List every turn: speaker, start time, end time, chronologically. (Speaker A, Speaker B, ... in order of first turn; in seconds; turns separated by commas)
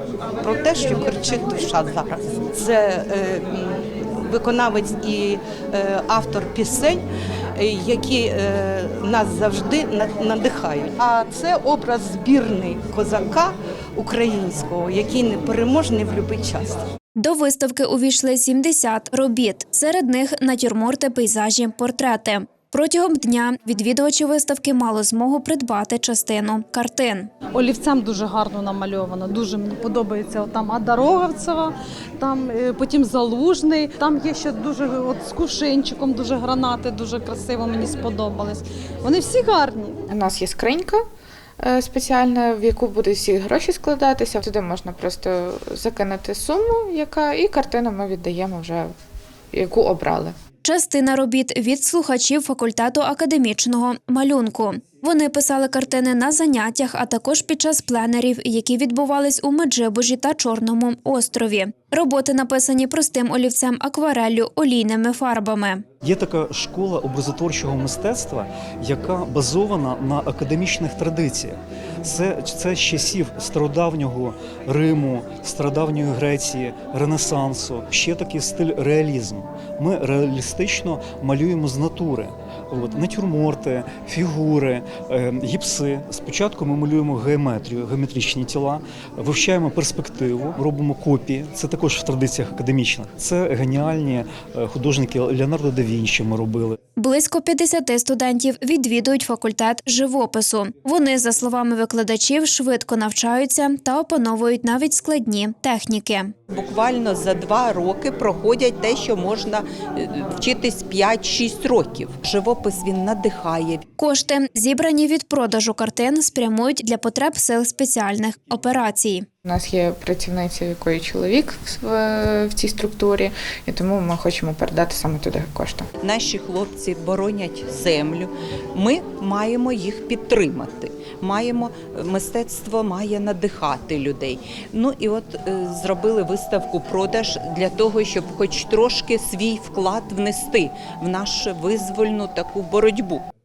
Speaker A: 0.4-7.0, Speaker A: 7.5-16.8, Speaker B: 17.2-27.3, Speaker C: 27.5-40.0, Speaker D: 40.1-41.0, Speaker D: 41.6-48.9, Speaker D: 49.5-50.4, Speaker B: 50.6-65.8, Speaker E: 66.0-96.8, Speaker B: 97.0-106.3, Speaker F: 106.5-113.8, Speaker B: 114.0-119.2, Speaker D: 119.4-125.9, Speaker F: 126.0-143.2